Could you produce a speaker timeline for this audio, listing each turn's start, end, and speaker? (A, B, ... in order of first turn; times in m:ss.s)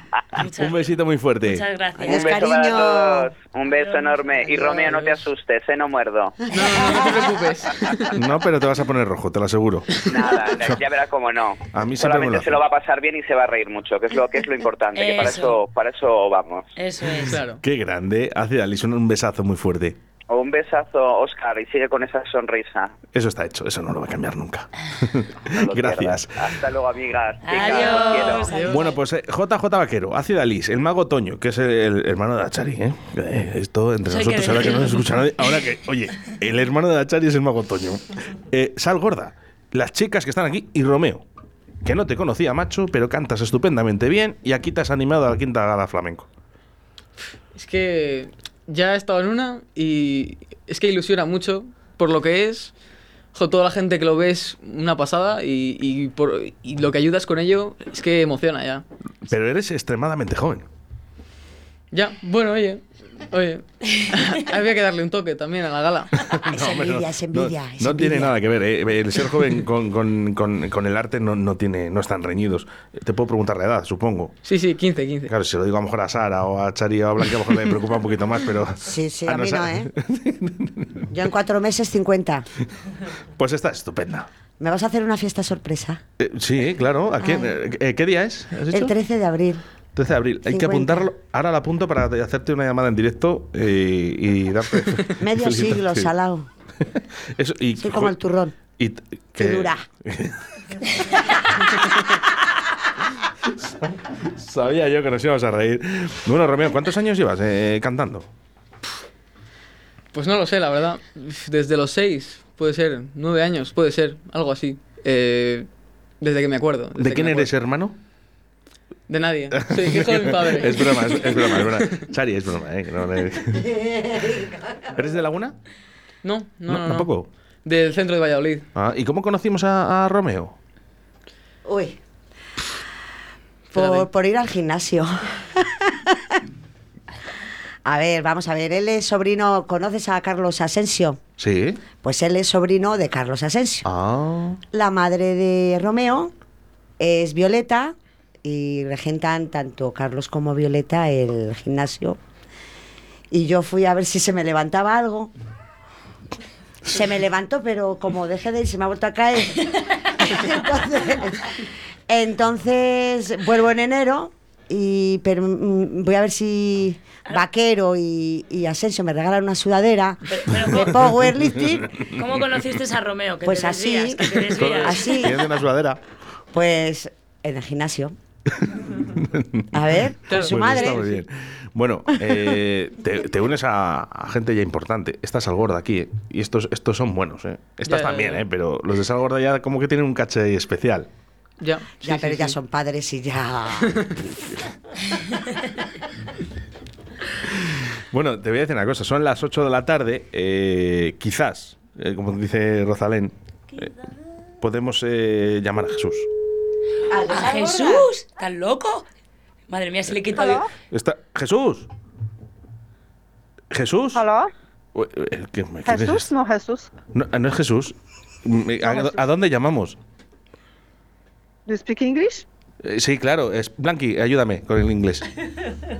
0:00.4-0:00.8 A
0:00.6-0:01.6 B
0:01.4-0:02.5 A
0:02.0-0:03.3 C
0:02.1-0:06.4 D
0:03.7-0:04.2 A
0:04.8-0:05.1 E
0:06.5-0:08.2 E
0:08.2-0:09.9 B
0:10.1-0:16.7 D
0:11.7-0:12.6 B
0:15.0-0:15.6 A
0:16.8-0:17.4 A
0:17.2-0:17.6 E
0:17.4-0:20.0 B
0:20.3-0:23.0 D
0:23.1-0:26.6 B
0:25.5-0:28.6 D
0:27.4-0:29.0 A
0:28.2-0:28.8 E
0:28.6-0:41.2 B
0:34.1-0:35.2 A
0:41.8-0:46.3 B
0:47.5-0:52.7 E
0:53.3-0:58.8 E
0:59.3-1:00.7 B
1:01.9-1:06.1 E
1:06.3-1:14.4 B
1:06.5-1:08.4 C
1:14.4-1:15.3 E
1:15.3-1:21.1 B
1:18.8-1:19.9 C
1:21.1-1:22.5 C
1:23.4-1:24.3 B
1:24.6-1:26.0 C
1:26.2-1:28.9 B
1:27.2-1:27.5 C
1:28.7-1:29.6 C
1:30.0-1:36.1 B
1:30.5-1:31.1 C
1:35.2-1:36.5 C
1:37.4-1:38.2 B
1:37.8-1:38.6 C
1:38.7-1:40.4 B
1:39.4-1:39.8 C
1:43.5-1:48.3 B
1:50.1-1:55.7 E
1:56.2-1:57.5 E
1:57.0-1:58.0 B
1:59.1-2:02.1 E
1:59.5-2:03.7 B
2:03.6-2:05.1 C
2:05.0-2:05.6 B
2:06.2-2:07.1 E
2:06.7-2:07.3 B
2:07.6-2:08.7 E
2:08.8-2:10.6 B
2:11.6-2:12.0 C
2:13.7-2:16.4 C
2:13.8-2:14.1 E
2:17.8-2:21.2 C
2:21.4-2:21.8 B
2:22.0-2:23.9 C
2:23.8-2:24.6 B
2:24.7-2:26.3 C
2:27.0-2:32.2 C
2:33.3-2:35.3 C
2:36.9-2:51.9 C
2:50.3-2:51.0 A
2:51.7-2:52.1 B
2:52.0-2:55.3 A
2:53.4-2:55.4 C
2:54.6-2:56.0 B
2:56.5-2:58.2 C
2:58.5-2:59.8 B
2:59.7-3:01.0 C
3:00.3-3:01.2 E
3:00.3-3:11.1 B
3:07.8-3:08.4 E
3:11.6-3:12.6 E
3:12.0-3:14.1 C
3:18.1-3:23.9 B
3:24.6-3:26.3 B
3:27.1-3:28.1 C
3:27.3-3:29.1 A
3:29.7-3:30.6 A
3:30.3-3:30.7 F
3:30.9-3:31.9 B
3:33.7-3:34.3 B
3:34.1-3:34.5 F
3:35.0-3:36.3 B
3:35.8-3:36.9 F
3:37.1-3:40.0 B
3:38.9-3:39.2 F
3:41.7-3:42.5 F
3:42.8-3:45.3 B